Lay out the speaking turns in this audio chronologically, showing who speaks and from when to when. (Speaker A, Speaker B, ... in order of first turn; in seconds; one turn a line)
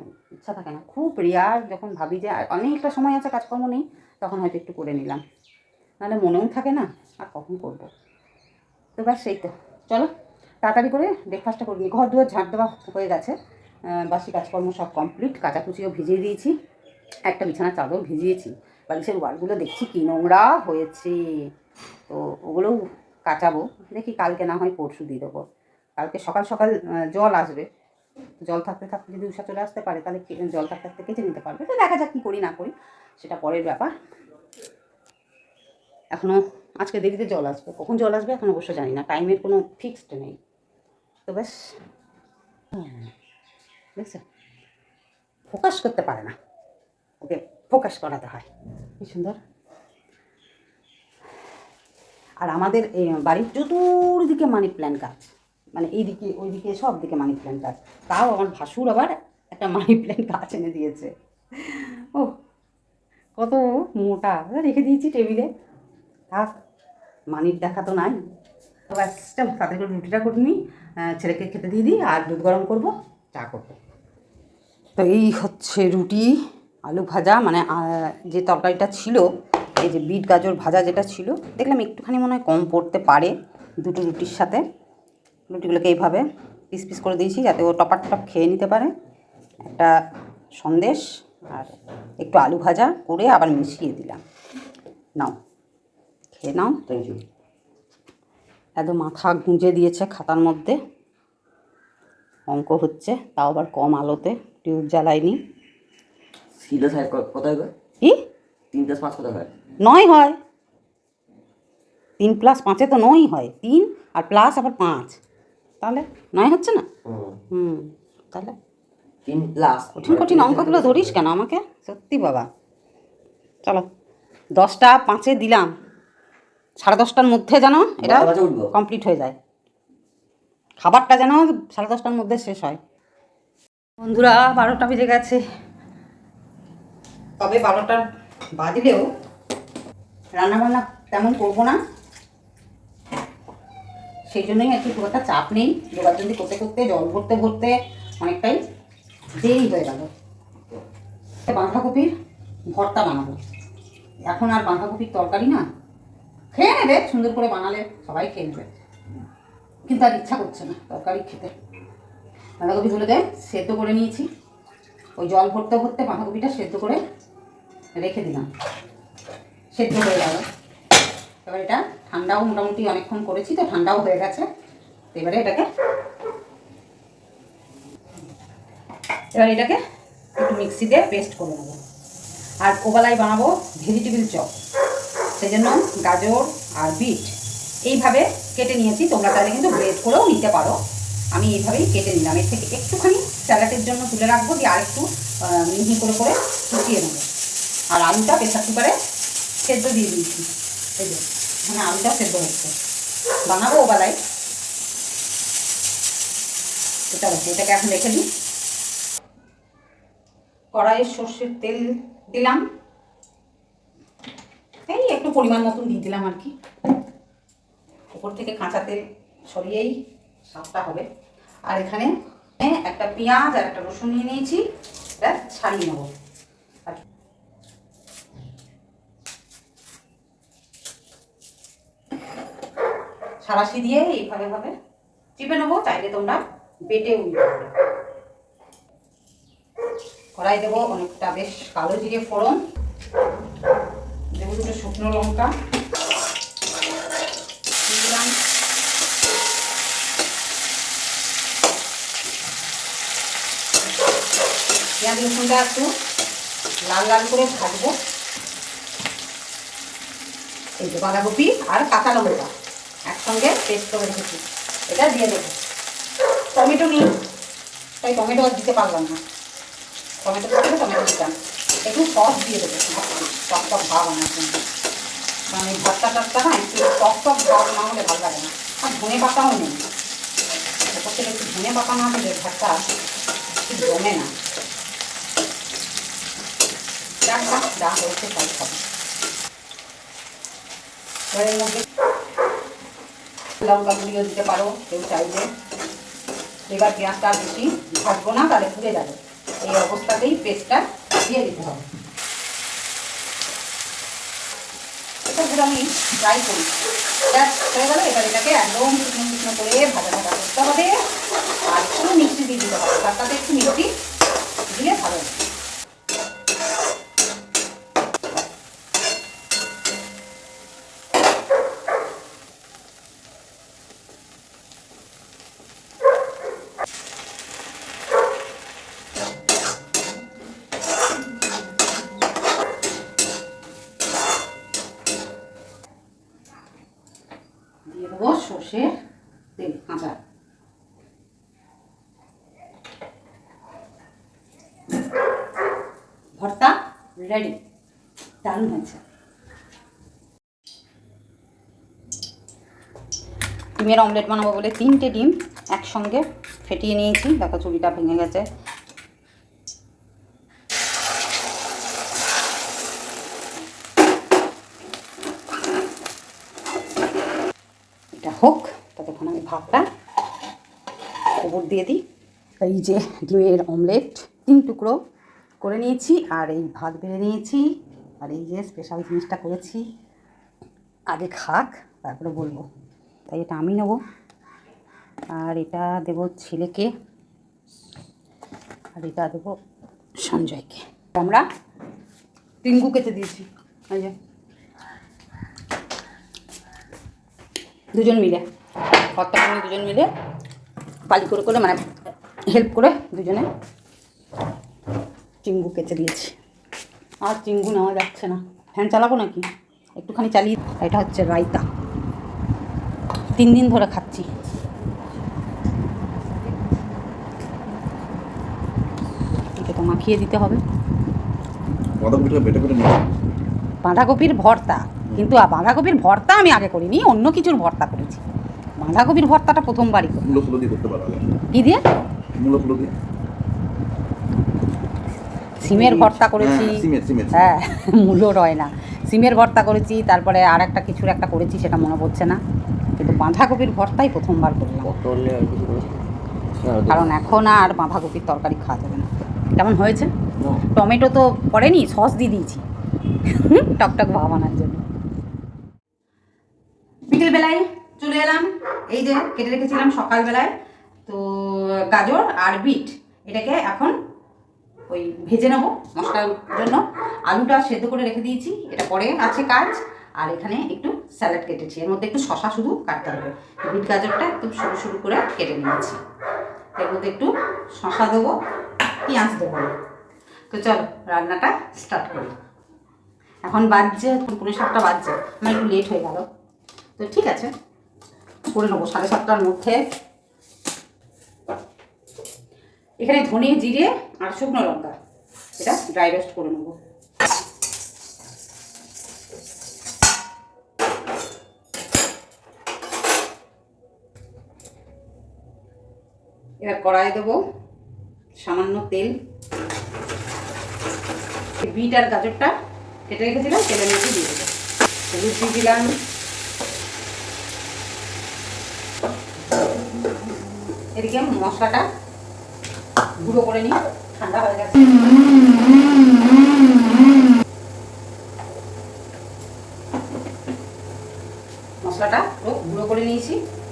Speaker A: 0.4-5.2
Speaker A: 6.0-7.9
Speaker A: 9.0-10.1
Speaker A: 10.6-13.4
Speaker A: 13.9-16.5
Speaker A: 17.3-21.5
Speaker A: 22.1-25.4
Speaker A: 26.0-27.7
Speaker A: 28.4-33.9
Speaker A: 36.1-40.4
Speaker A: 41.3-41.8
Speaker A: 42.7-43.1
Speaker A: 44.0-44.2
Speaker A: 45.5-46.4
Speaker A: 47.2-48.5
Speaker A: 49.0-49.4
Speaker A: 52.4-62.4
Speaker A: 63.4-65.5
Speaker A: 67.3-68.2
Speaker A: 68.9-73.8
Speaker A: 75.0-76.3
Speaker A: 76.9-79.3
Speaker A: 79.8-84.6
Speaker A: 85.5-88.9
Speaker A: 89.6-89.9
Speaker A: 90.6-94.2
Speaker A: 96.3-96.8
Speaker B: 96.9-97.2
Speaker A: 98.8-100.8
Speaker A: 102.5-105.4
Speaker B: 106.6-107.7
Speaker B: 108.7-109.5
Speaker A: 109.8-110.4
Speaker A: 112.2-115.2
Speaker A: 115.8-116.9
Speaker B: 117.1-117.3
Speaker A: 117.5-118.5
Speaker B: 119.3-121.2
Speaker A: 120.0-122.5
Speaker A: 124.6-125.7
Speaker A: 126.8-129.4
Speaker B: 128.0-128.7
Speaker A: 130.8-132.8
Speaker A: 134.0-135.4
Speaker A: 137.4-138.0
Speaker A: 138.6-139.1
Speaker A: 140.4-141.8
Speaker A: 144.3-148.6
Speaker A: 149.4-150.1
Speaker A: 151.4-152.1
Speaker A: 152.7-153.4
Speaker A: 154.3-155.6
Speaker A: 156.5-158.8
Speaker A: 159.9-161.5
Speaker A: 162.6-164.3
Speaker A: 165.2-167.0
Speaker A: 168.0-168.5
Speaker A: 169.8-170.5
Speaker A: 171.5-174.5
Speaker A: 175.1-175.7
Speaker A: 179.3-179.8
Speaker A: 180.4-181.8
Speaker A: 182.6-184.5
Speaker A: 185.4-187.3
Speaker A: 187.8-190.8
Speaker A: 191.3-197.2
Speaker A: 197.9-199.0
Speaker A: 199.6-202.7
Speaker A: 203.5-204.2
Speaker A: 207.1-208.3
Speaker A: 210.7-212.6
Speaker A: 214.9-216.5
Speaker A: 218.1-219.9
Speaker A: 220.5-221.1
Speaker A: 221.7-224.6
Speaker A: 225.2-226.1
Speaker A: 233.4-234.7
Speaker A: 235.4-237.7
Speaker A: 240.4-242.6
Speaker A: 244.4-245.5
Speaker A: 247.8-248.4
Speaker A: 255.0-255.9
Speaker A: 256.9-257.9
Speaker A: 260.8-262.5
Speaker A: 263.1-265.6
Speaker A: 266.5-267.2
Speaker A: 268.0-269.2
Speaker A: 270.2-274.6
Speaker A: 275.5-279.9
Speaker A: 280.9-282.8
Speaker A: 283.6-284.3
Speaker A: 287.2-288.9
Speaker A: 291.3-291.9
Speaker A: 293.6-295.5
Speaker A: 296.7-301.9
Speaker A: 305.2-306.7
Speaker A: 307.3-311.0
Speaker A: 311.7-313.9
Speaker A: 314.7-315.4
Speaker A: 337.9-338.9
Speaker A: 339.6-340.2
Speaker A: 346.4-347.6
Speaker A: 348.4-349.0
Speaker A: 353.8-358.5
Speaker A: 368.2-369.9
Speaker A: 371.4-372.0
Speaker A: 372.6-375.0
Speaker A: 375.6-377.7
Speaker A: 378.2-379.9
Speaker A: 381.1-382.7
Speaker A: 383.3-384.0
Speaker A: 385.3-386.9
Speaker A: 389.0-389.6
Speaker A: 390.2-391.4
Speaker A: 392.6-394.1
Speaker A: 397.9-398.4
Speaker A: 399.1-400.1
Speaker A: 401.1-401.9
Speaker A: 402.5-403.5
Speaker A: 405.4-406.4
Speaker A: 407.2-409.5
Speaker A: 410.0-411.7
Speaker A: 413.4-414.3
Speaker A: 419.6-420.6
Speaker C: 422.0-423.1
Speaker A: 423.8-428.2
Speaker A: 428.8-430.2
Speaker C: 430.2-431.2
Speaker A: 431.5-431.8
Speaker C: 432.4-432.9
Speaker A: 435.6-442.4
Speaker B: 435.6-436.1
Speaker C: 436.3-437.6
Speaker A: 443.0-444.9
Speaker B: 444.9-445.9
Speaker B: 446.6-447.1
Speaker A: 446.9-450.1
Speaker B: 450.4-450.6
Speaker A: 450.7-452.6
Speaker A: 453.3-454.8
Speaker A: 457.1-460.5
Speaker A: 461.1-463.9
Speaker A: 464.9-476.0
Speaker A: 476.8-478.4
Speaker A: 479.0-479.7
Speaker A: 480.5-482.3
Speaker A: 483.4-486.3
Speaker A: 487.0-487.5
Speaker A: 488.5-489.8
Speaker A: 493.0-494.9
Speaker A: 495.6-496.8
Speaker A: 506.6-507.4
Speaker A: 508.4-509.1
Speaker A: 511.6-512.5
Speaker A: 513.1-514.5
Speaker A: 515.1-516.0
Speaker A: 521.0-521.9
Speaker A: 523.2-525.0
Speaker A: 531.8-533.4